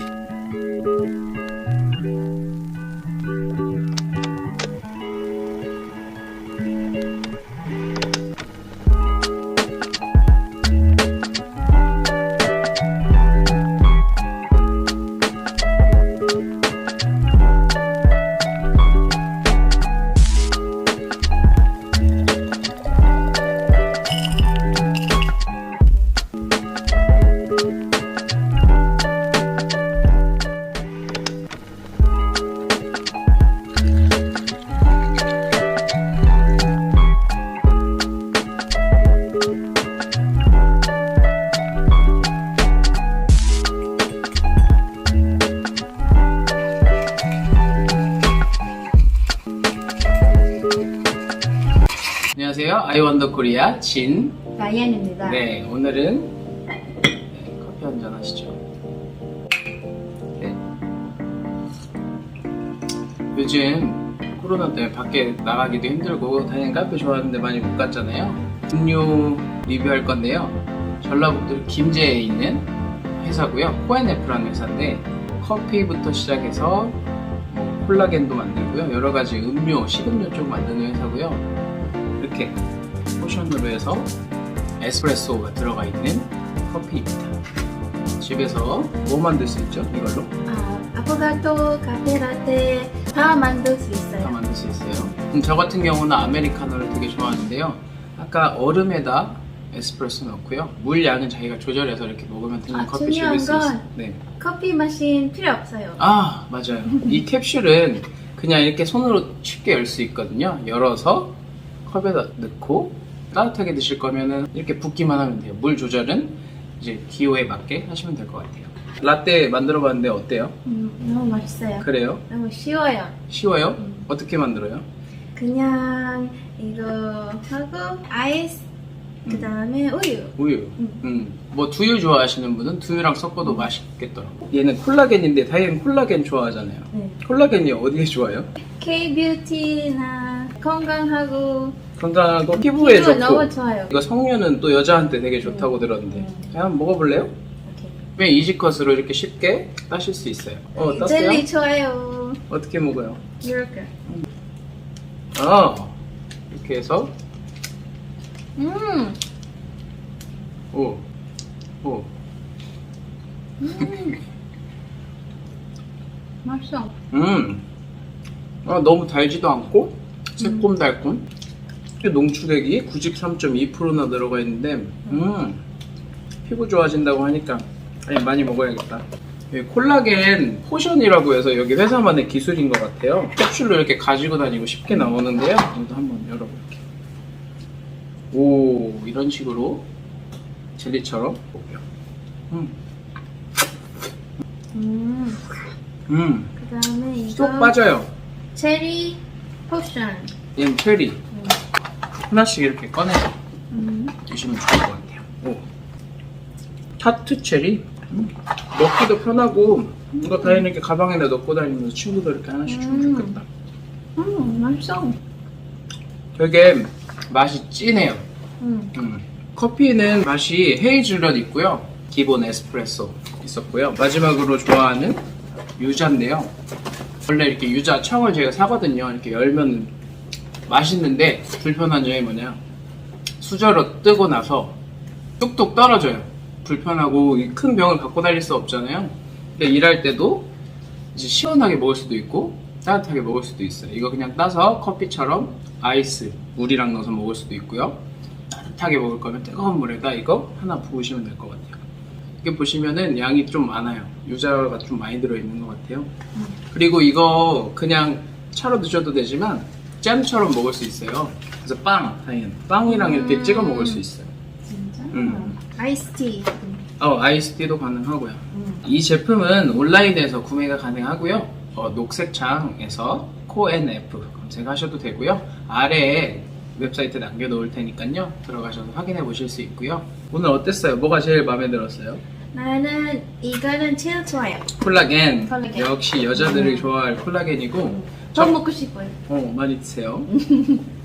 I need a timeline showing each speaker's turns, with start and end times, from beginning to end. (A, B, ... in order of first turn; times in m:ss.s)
0:52.3-0:54.4 A
0:54.6-0:55.4 B
0:55.2-0:56.3 A
0:57.3-0:58.6 A
1:03.3-1:17.0 A
1:17.5-1:21.5 A
1:22.2-1:22.6 A
1:23.2-1:24.1 A
1:24.8-1:27.4 A
1:28.2-1:30.3 A
1:30.4-1:34.4 B
1:34.2-1:44.2 A
1:34.9-1:35.2 B
1:42.7-1:43.8 B
1:44.4-1:46.0 B
1:46.0-2:00.6 A
2:00.6-2:03.2 B
2:01.8-2:02.2 A
2:03.3-2:04.8 A
2:05.3-2:08.6 B
2:09.2-2:09.5 A
2:09.2-2:11.0 B
2:10.4-2:18.5 A
2:18.8-2:21.8 B
2:22.0-2:27.3 A
2:22.5-2:23.9 B
2:25.4-2:26.5 B
2:27.6-2:28.0 B
2:28.2-2:31.5 A
2:30.7-2:32.4 B
2:32.5-2:33.4 A
2:33.4-2:33.9 B
2:35.3-2:35.9 A
2:36.5-2:37.1 A
2:38.6-2:39.2 B
2:40.7-2:41.0 A
2:41.8-2:42.1 A
2:43.6-2:44.2 B
2:46.4-2:46.9 B
2:47.1-2:47.6 A
2:48.6-2:51.3 A
2:52.0-2:55.6 A
2:56.4-3:06.8 A
3:04.9-3:05.2 B
3:08.3-3:09.8 A
3:10.8-3:11.8 A
3:14.7-3:15.5 B
3:16.1-3:16.5 A
3:16.6-3:17.8 B
3:17.3-3:18.1 A
3:18.5-3:20.3 B
3:20.5-3:21.2 A
3:21.3-3:21.6 B
3:22.3-3:23.3 A
3:23.7-3:24.1 B
3:24.2-3:25.6 A
3:27.0-3:33.5 A
3:30.2-3:30.6 B
3:32.6-3:33.4 B
3:34.2-3:35.2 B
3:36.3-3:38.2 A
3:38.6-3:38.9 B
3:38.9-3:45.2 A
3:45.8-3:46.5 A
3:47.2-3:49.9 A
3:50.7-3:52.6 A
3:53.4-3:54.7 A
3:55.4-4:00.5 A
4:01.1-4:11.8 A
4:12.4-4:16.1 A
4:16.7-4:24.3 A
4:22.8-4:24.0 B
4:24.7-4:26.8 B
4:25.1-4:25.6 A
4:27.0-4:42.2 A
4:28.5-4:28.8 B
4:42.5-4:44.7 B
4:44.7-4:48.6 A
4:45.4-4:46.9 B
4:47.9-4:49.2 B
4:49.2-4:50.3 A
4:50.3-4:50.8 B